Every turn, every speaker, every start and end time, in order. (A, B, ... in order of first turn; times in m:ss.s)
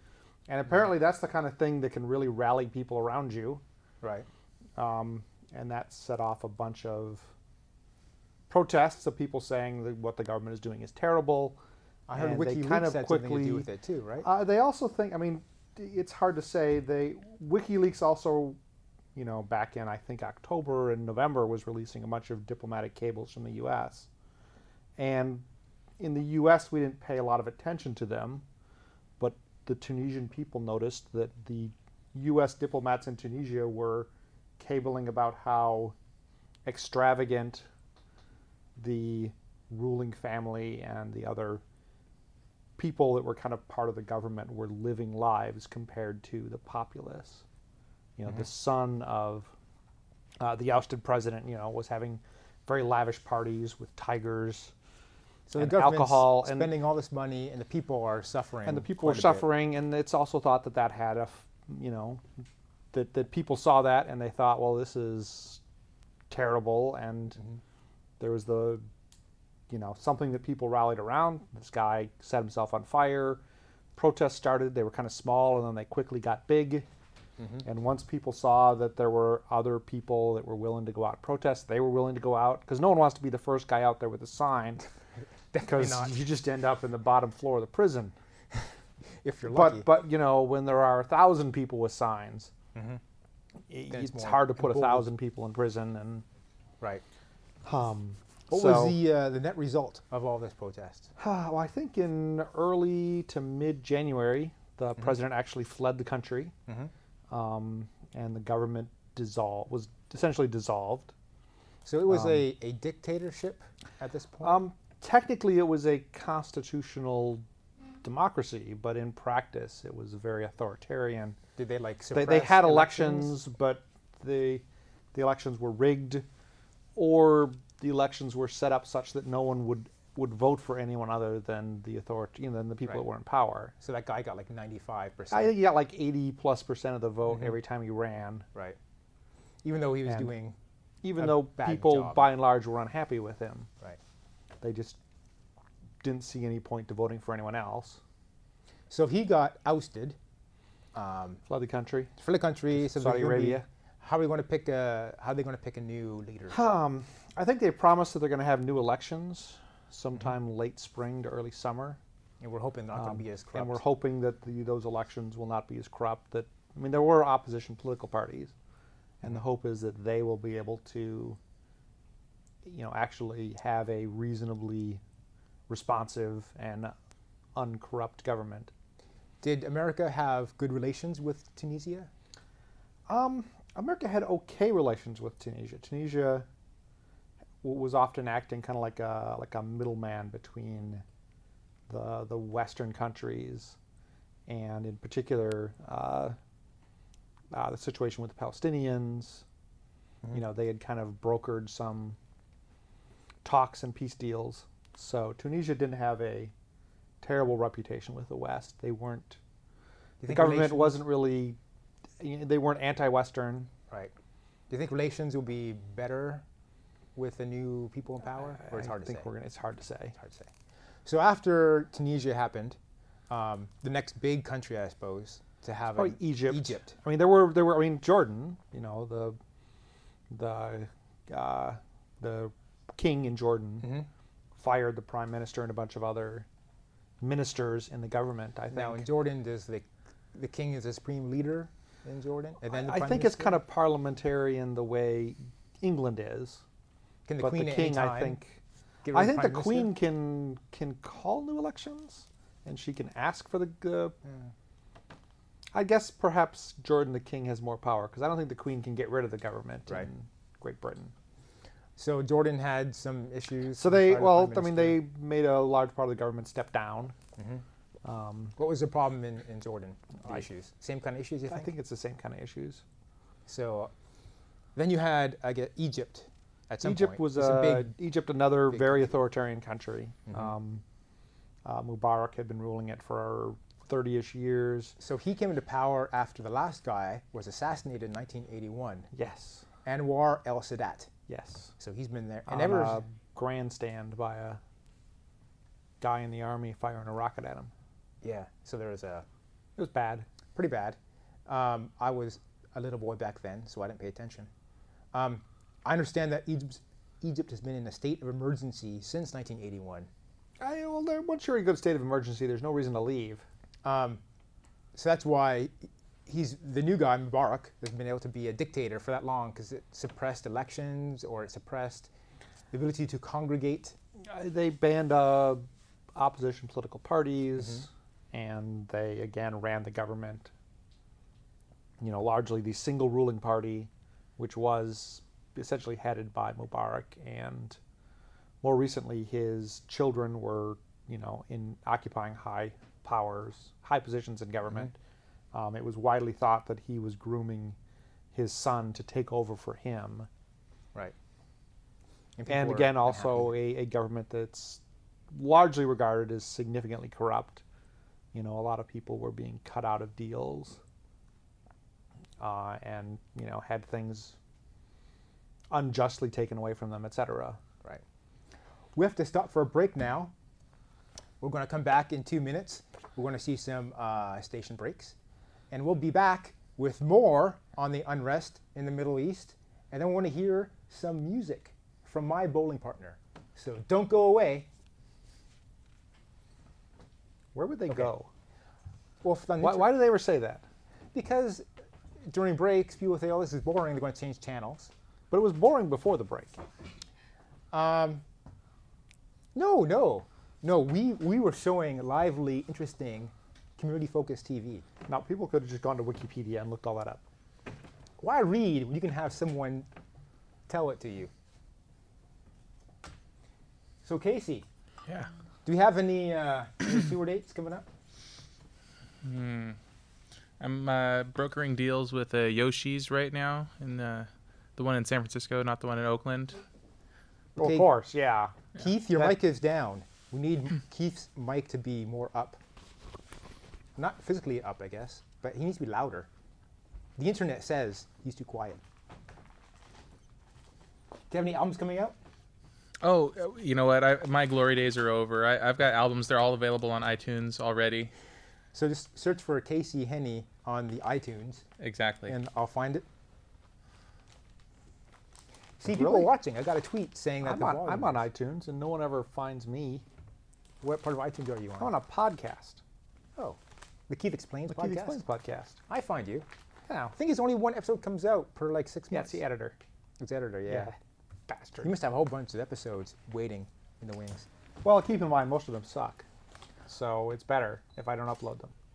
0:00.5-0:03.6 A
0:04.0-0:04.3 B
0:04.8-0:07.3 A
0:08.5-0:11.6 A
0:12.1-0:14.3 B
0:12.1-0:13.7 A
0:14.2-0:18.6 A
0:19.2-0:24.1 A
0:25.0-0:25.5 A
0:26.0-0:28.4 A
0:29.2-0:36.0 A
0:36.7-0:37.7 A
0:38.8-0:41.6 A
0:42.8-0:47.4 A
0:48.2-0:49.5 A
0:50.4-0:54.7 A
0:55.5-0:59.5 B
0:55.6-0:56.7 A
0:58.6-1:02.2 A
1:02.9-1:05.6 A
1:06.3-1:07.4 A
1:08.2-1:08.8 A
1:09.7-1:13.4 A
1:14.0-1:16.9 A
1:17.6-1:24.9 A
1:25.5-1:26.2 B
1:25.7-1:28.1 A
1:29.2-1:29.9 B
1:29.5-1:32.5 A
1:32.8-1:33.0 B
1:33.7-1:36.2 A
1:33.9-1:35.1 B
1:37.6-1:39.0 A
1:38.5-1:41.1 B
1:41.2-1:46.5 A
1:47.3-1:51.1 A
1:51.8-1:54.6 B
1:52.1-1:52.4 A
1:54.4-1:57.4 A
1:58.0-2:01.4 A
2:01.6-2:03.4 B
2:02.1-2:06.3 A
2:07.0-2:13.7 A
2:13.8-2:15.5 B
2:15.3-2:18.5 A
2:19.6-2:20.6 B
2:20.1-2:20.3 A
2:21.0-2:23.7 A
2:21.2-2:22.3 B
2:24.6-2:25.0 A
2:26.0-2:28.0 A
2:28.9-2:30.2 B
2:31.0-2:31.4 B
2:31.5-2:32.1 A
2:32.2-2:36.6 B
2:32.7-2:33.7 A
2:36.5-2:42.0 A
2:42.4-2:43.8 B
2:42.9-2:48.5 A
2:49.2-2:51.4 A
2:52.6-2:55.0 A
2:55.7-2:56.9 A
2:57.6-2:58.7 A
2:59.4-3:02.1 B
3:03.1-3:06.5 A
3:07.6-3:11.0 A
3:11.9-3:13.8 A
3:14.5-3:16.4 A
3:17.5-3:19.4 A
3:20.3-3:22.2 A
3:23.4-3:26.5 A
3:27.2-3:29.4 A
3:30.2-3:31.1 B
3:30.3-3:31.6 A
3:32.2-3:33.7 A
3:34.7-3:36.4 B
3:37.2-3:39.3 B
3:38.4-3:40.2 A
3:40.2-3:40.5 B
3:41.0-3:42.8 B
3:43.3-3:47.0 B
3:46.0-3:49.4 A
3:50.3-3:53.9 A
3:53.8-3:54.1 B
3:54.6-3:56.5 A
3:57.2-3:59.1 A
3:58.7-4:03.6 B
4:02.7-4:06.6 A
4:07.3-4:08.4 B
4:07.4-4:08.6 A
4:09.0-4:10.0 B
4:09.1-4:14.2 A
4:14.2-4:14.5 B
4:15.7-4:21.1 A
4:22.0-4:25.0 B
4:23.8-4:27.2 A
4:27.4-4:27.6 B
4:28.0-4:28.6 A
4:28.6-4:31.7 B
4:31.5-4:32.8 A
4:33.5-4:33.9 B
4:34.8-4:37.9 B
4:36.8-4:40.8 A
4:38.7-4:39.1 B
4:40.3-4:40.5 B
4:41.6-4:45.0 A
4:45.0-4:49.1 B
4:49.1-4:49.7 A
4:49.8-4:51.1 B
4:51.3-4:51.7 A
4:51.8-4:53.0 B
4:52.5-4:54.6 A
4:56.0-4:57.7 A
4:58.2-4:59.3 B
4:59.8-5:00.3 A
5:00.6-5:04.5 B
5:05.1-5:10.1 B
5:10.6-5:13.4 A
5:13.8-5:14.2 B
5:14.9-5:22.1 B
5:22.7-5:24.0 B
5:24.2-5:30.5 A
5:32.0-5:37.8 A
5:38.6-5:45.0 A
5:45.5-5:47.8 A
5:48.3-5:50.3 A
5:52.4-5:53.5 B
5:52.5-5:57.6 A
5:58.3-6:00.8 A
6:02.4-6:04.4 A
6:05.7-6:07.6 A
6:09.0-6:10.3 B
6:11.4-6:15.2 B
6:15.7-6:24.7 B
6:27.5-6:28.3 A
6:29.2-6:30.0 B
6:29.6-6:30.6 A
6:31.1-6:31.6 B
6:32.3-6:34.9 B
6:35.3-6:36.6 A
6:37.7-6:38.2 B
6:39.6-6:44.9 B
6:45.1-6:47.2 A
6:48.2-6:49.9 B
6:50.7-6:51.3 B
6:54.0-6:54.7 B
6:55.7-6:57.9 B
6:59.2-6:59.8 C
7:00.6-7:06.6 C
7:07.6-7:08.6 A
7:07.6-7:07.9 B
7:08.8-7:12.6 B
7:14.0-7:16.3 B
7:17.2-7:18.8 B
7:21.3-7:22.2 B
7:23.0-7:28.1 C
7:28.7-7:31.6 B
7:31.8-7:32.4 C
7:32.3-7:33.0 B
7:35.8-7:38.2 B
7:36.0-7:36.3 A
7:37.4-7:40.0 A
7:40.8-7:41.9 B
7:41.8-7:42.8 A
7:43.4-7:45.2 B
7:44.7-7:45.8 A
7:45.9-7:46.5 B
7:46.9-7:47.2 A
7:47.2-7:49.4 B
7:49.1-7:49.8 A
7:50.2-7:50.9 B
7:50.7-7:51.0 A
7:51.5-7:51.9 A
7:51.8-7:54.5 B
7:54.8-7:56.2 A
7:56.9-7:58.7 A